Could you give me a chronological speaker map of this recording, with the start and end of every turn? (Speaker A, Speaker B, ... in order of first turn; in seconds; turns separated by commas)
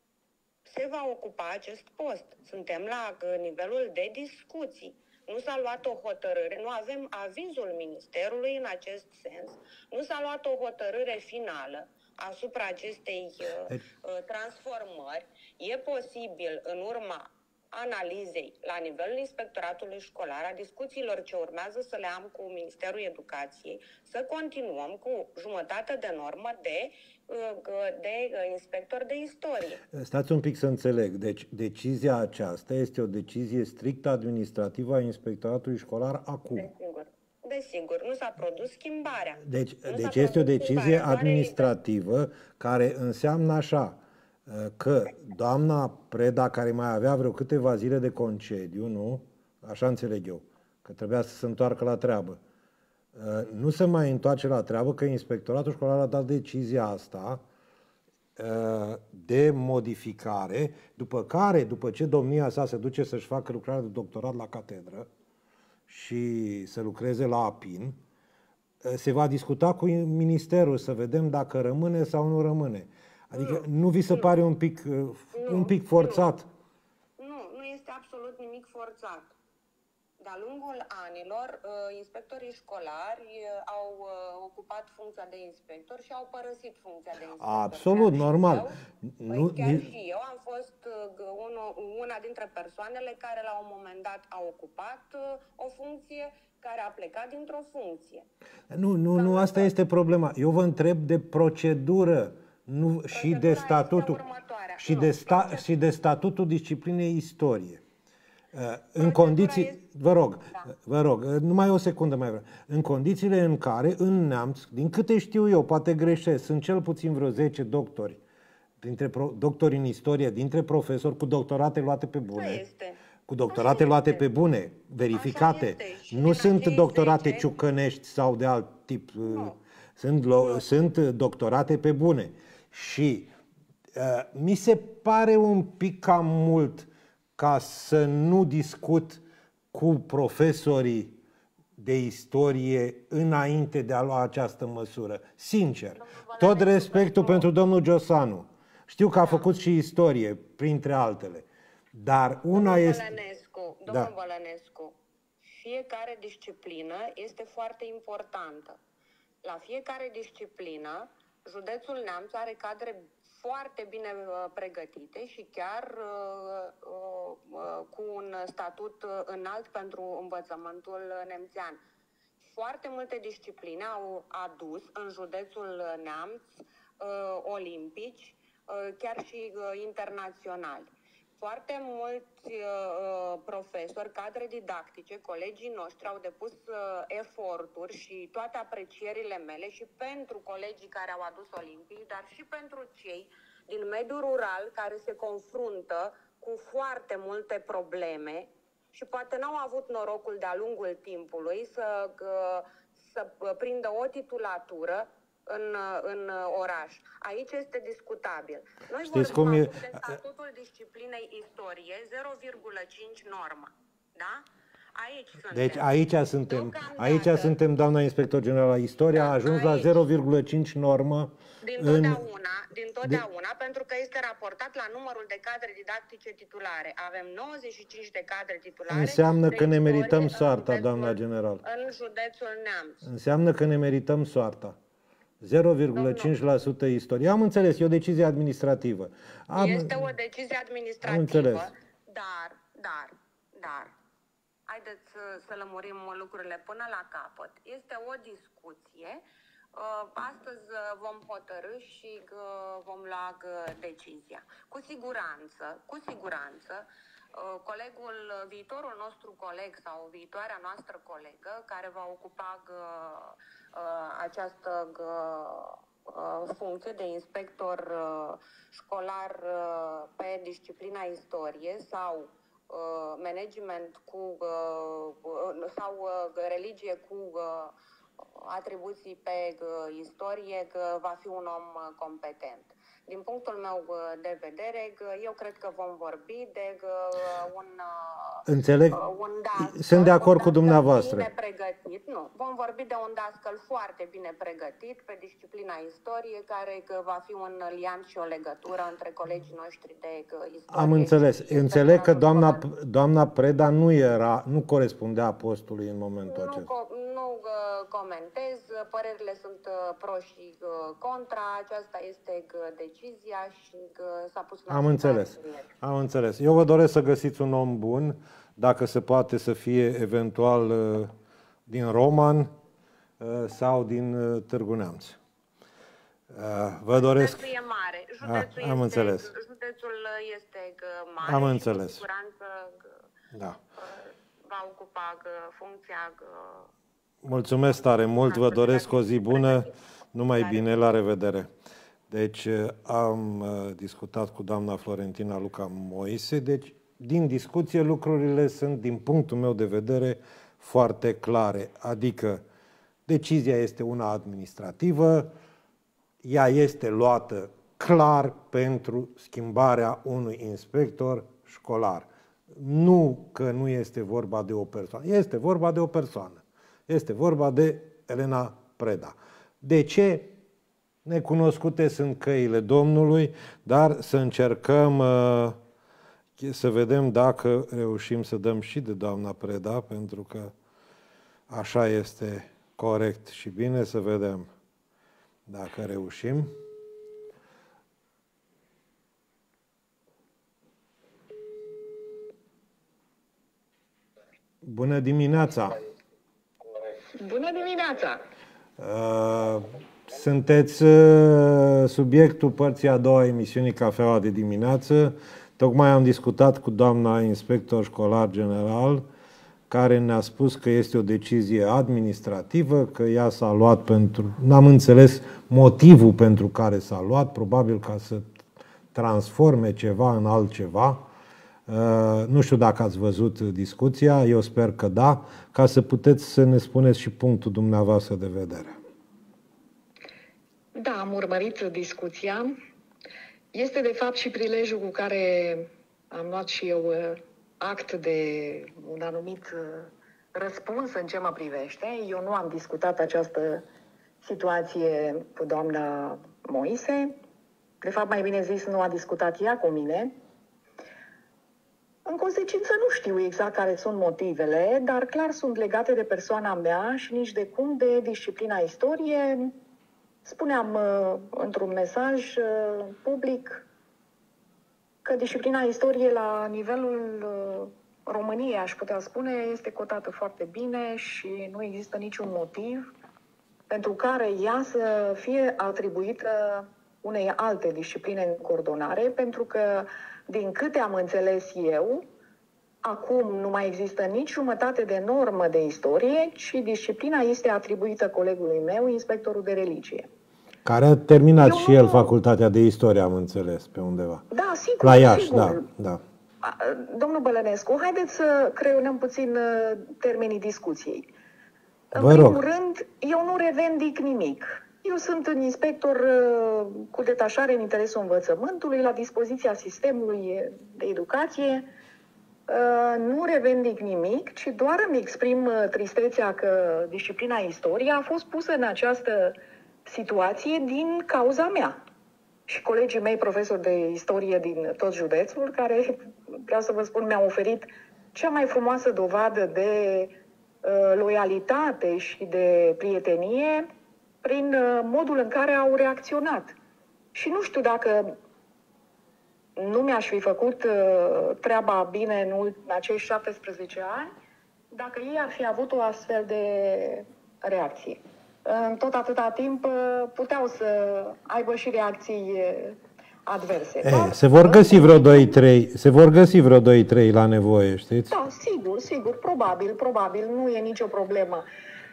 Speaker A: 0.7-29.8, Speaker B: 29.9-36.7, Speaker A: 36.5-41.7, Speaker B: 39.4-52.4, Speaker B: 53.1-57.4, Speaker B: 58.4-65.1, Speaker B: 65.9-68.0, Speaker B: 68.8-76.5, Speaker A: 73.4-74.3, Speaker A: 75.3-76.3, Speaker A: 77.2-79.3, Speaker A: 80.2-98.3, Speaker B: 87.4-89.9, Speaker B: 98.7-104.2, Speaker A: 99.2-99.7, Speaker A: 103.1-105.7, Speaker B: 104.8-107.8, Speaker B: 108.5-118.2, Speaker A: 109.0-110.7, Speaker B: 118.8-122.6, Speaker A: 122.3-124.2, Speaker B: 123.3-133.3, Speaker A: 125.1-127.5, Speaker A: 129.2-129.6, Speaker A: 130.4-130.6, Speaker B: 133.9-141.2, Speaker B: 141.8-153.1, Speaker A: 146.0-147.5, Speaker A: 149.2-149.5, Speaker A: 152.5-155.0, Speaker A: 155.6-158.8, Speaker A: 159.4-171.8, Speaker A: 172.4-215.9, Speaker B: 209.1-210.0, Speaker B: 215.5-222.2, Speaker A: 216.5-217.6, Speaker A: 219.1-220.0, Speaker A: 221.6-233.0, Speaker B: 228.9-231.6, Speaker B: 233.0-234.8, Speaker B: 235.4-240.0, Speaker A: 235.9-236.3, Speaker A: 239.6-243.9, Speaker B: 241.0-241.7, Speaker A: 244.7-249.2, Speaker A: 249.8-302.6, Speaker B: 288.5-289.0, Speaker B: 289.6-291.3, Speaker B: 300.7-306.7, Speaker A: 306.3-315.7, Speaker B: 314.7-321.1, Speaker B: 321.7-322.5, Speaker B: 323.2-325.2, Speaker B: 326.3-327.4, Speaker A: 326.9-333.0, Speaker B: 328.2-329.3, Speaker B: 331.2-332.0, Speaker B: 333.3-333.6, Speaker A: 333.8-336.7, Speaker B: 337.2-341.5, Speaker A: 337.8-339.7, Speaker A: 340.4-340.6, Speaker B: 342.1-352.4, Speaker B: 353.1-355.3, Speaker B: 356.2-370.3, Speaker B: 371.1-375.6, Speaker B: 376.4-380.5, Speaker B: 381.5-384.5, Speaker B: 385.5-386.5, Speaker B: 394.6-395.8, Speaker C: 397.2-398.2, Speaker B: 398.8-409.0, Speaker B: 409.7-418.3, Speaker B: 418.9-421.0, Speaker B: 421.7-428.8, Speaker C: 430.8-432.6, Speaker C: 433.5-443.6, Speaker C: 444.2-447.2, Speaker C: 447.8-450.1, Speaker C: 452.1-459.5, Speaker C: 460.2-463.6, Speaker C: 465.0-472.9, Speaker C: 473.7-482.1, Speaker C: 482.8-490.1, Speaker B: 490.7-494.2, Speaker C: 491.4-492.1, Speaker C: 494.3-495.6, Speaker B: 494.8-496.0, Speaker C: 496.4-501.1, Speaker C: 501.9-511.7, Speaker B: 501.9-502.4, Speaker C: 512.5-519.4, Speaker C: 519.9-521.8, Speaker C: 522.5-530.1, Speaker C: 530.6-533.7, Speaker C: 534.2-536.6, Speaker C: 537.1-538.2, Speaker C: 539.6-544.1, Speaker C: 544.7-555.4, Speaker B: 553.8-558.1, Speaker C: 558.1-561.5